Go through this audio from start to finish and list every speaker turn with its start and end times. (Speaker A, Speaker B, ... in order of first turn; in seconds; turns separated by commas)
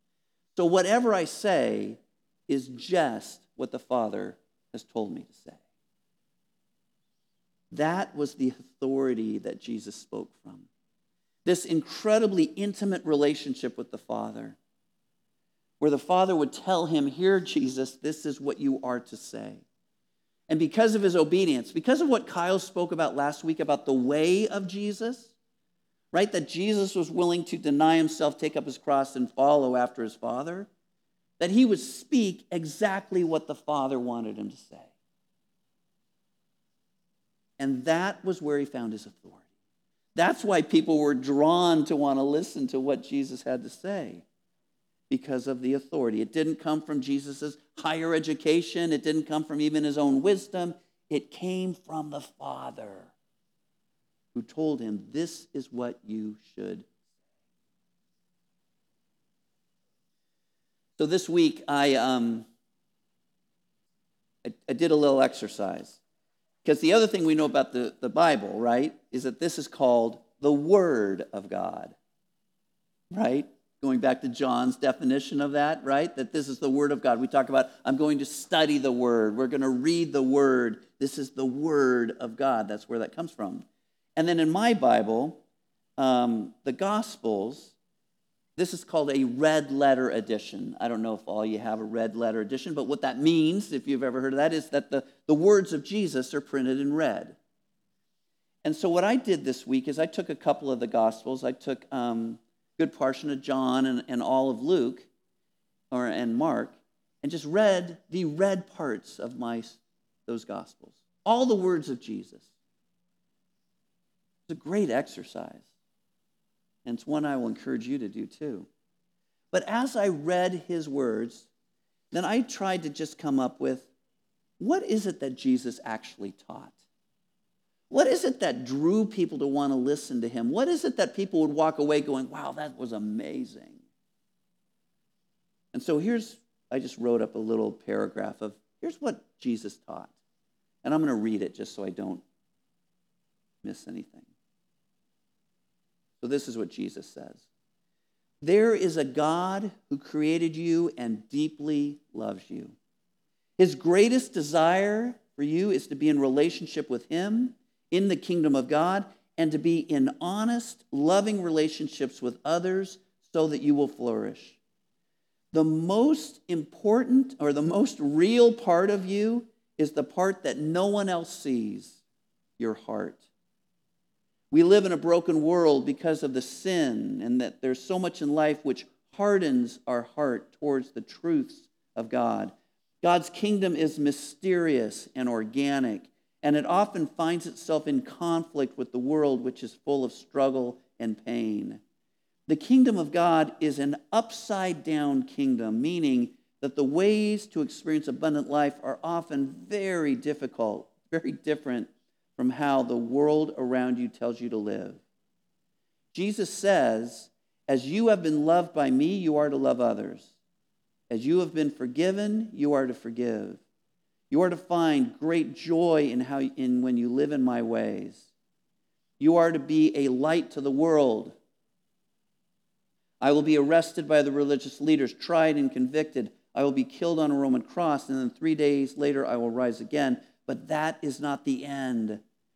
Speaker A: 0.6-5.6, Speaker A: 7.7-10.7, Speaker A: 11.4-14.6, Speaker A: 15.8-19.6, Speaker A: 20.5-25.3, Speaker A: 26.1-30.7, Speaker A: 31.4-34.9, Speaker A: 37.6-39.4, Speaker A: 40.1-44.2, Speaker A: 45.1-53.1, Speaker A: 54.3-56.9, Speaker A: 61.0-62.5, Speaker A: 64.4-66.0, Speaker A: 66.6-71.9, Speaker A: 73.1-83.6, Speaker A: 84.2-85.4, Speaker A: 86.0-87.7, Speaker A: 88.5-97.3, Speaker A: 98.6-105.1, Speaker A: 105.9-112.5, Speaker A: 114.5-115.7, Speaker A: 116.8-118.7, Speaker A: 119.5-121.5, Speaker A: 122.1-123.9, Speaker A: 124.6-126.8, Speaker A: 127.9-133.8, Speaker A: 135.7-140.1, Speaker A: 140.8-142.2, Speaker A: 143.6-144.2, Speaker A: 146.2-147.4, Speaker A: 148.4-152.7, Speaker A: 153.6-164.6, Speaker A: 165.5-172.0, Speaker A: 172.6-173.2, Speaker A: 174.5-191.8, Speaker A: 192.5-205.0, Speaker A: 206.1-210.3, Speaker A: 211.1-213.6, Speaker A: 214.3-218.3, Speaker A: 219.2-221.3, Speaker A: 223.2-232.2